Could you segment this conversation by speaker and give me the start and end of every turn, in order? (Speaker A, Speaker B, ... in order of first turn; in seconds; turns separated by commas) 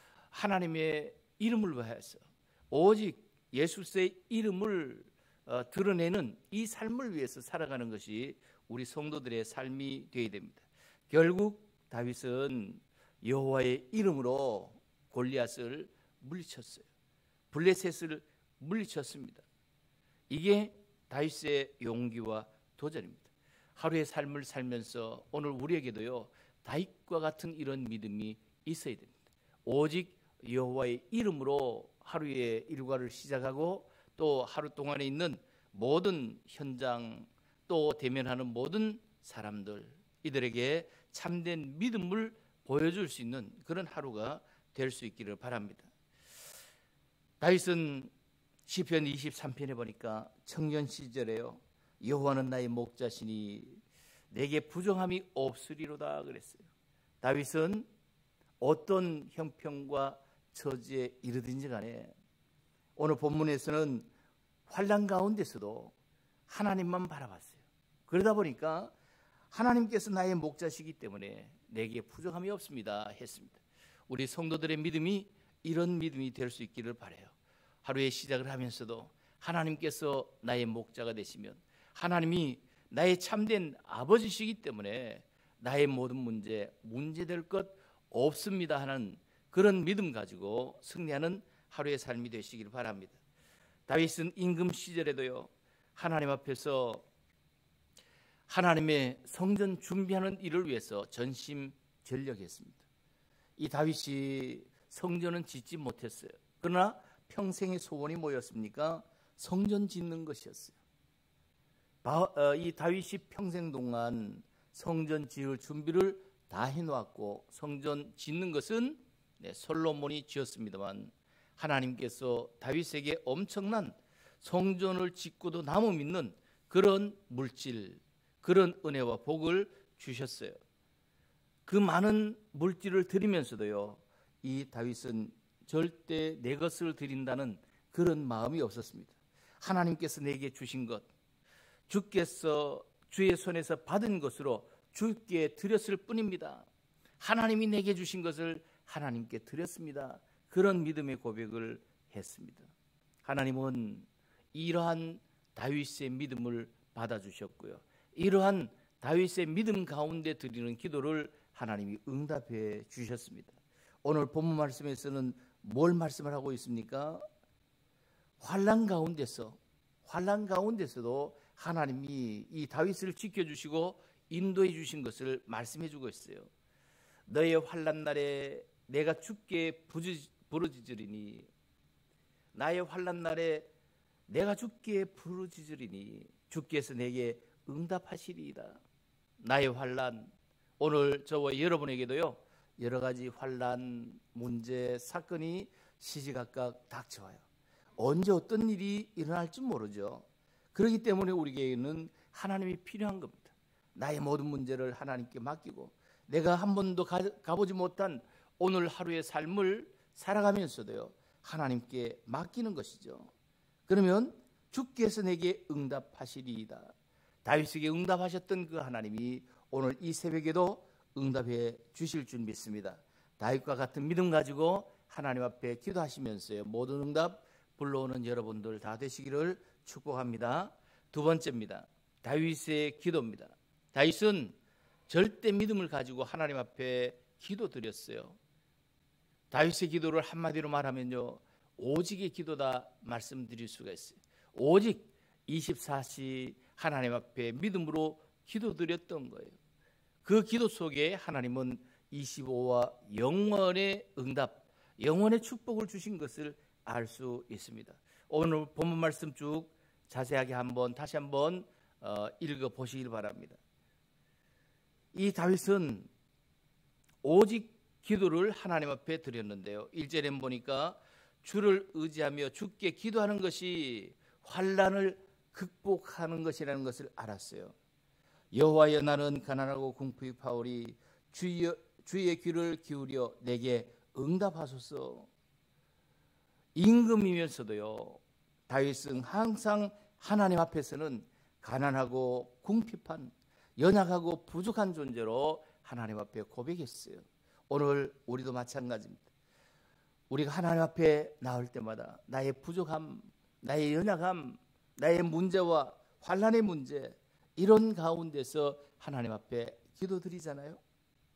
Speaker A: 0.3-16.9, Speaker A: 17.5-19.4, Speaker A: 20.3-45.9, Speaker A: 47.4-48.1, Speaker A: 48.7-56.7, Speaker A: 57.2-57.9, Speaker A: 58.6-62.1, Speaker A: 63.0-64.1, Speaker A: 64.7-65.9, Speaker A: 66.5-68.9, Speaker A: 69.5-93.2, Speaker A: 93.9-97.0, Speaker A: 98.5-102.8, Speaker A: 103.6-110.8, Speaker A: 112.0-130.6, Speaker A: 131.7-141.1, Speaker A: 141.9-146.7, Speaker A: 147.2-152.7, Speaker A: 153.2-167.2, Speaker A: 168.4-176.5, Speaker A: 177.3-181.5, Speaker A: 182.5-183.7, Speaker A: 184.3-188.8, Speaker A: 189.4-197.4, Speaker A: 198.0-213.3, Speaker A: 213.9-216.9, Speaker A: 217.4-234.6, Speaker A: 235.1-238.4, Speaker A: 239.5-249.6, Speaker A: 250.2-263.6, Speaker A: 265.1-266.1, Speaker A: 267.2-277.7, Speaker A: 278.5-285.3, Speaker A: 286.7-299.2, Speaker A: 300.3-310.8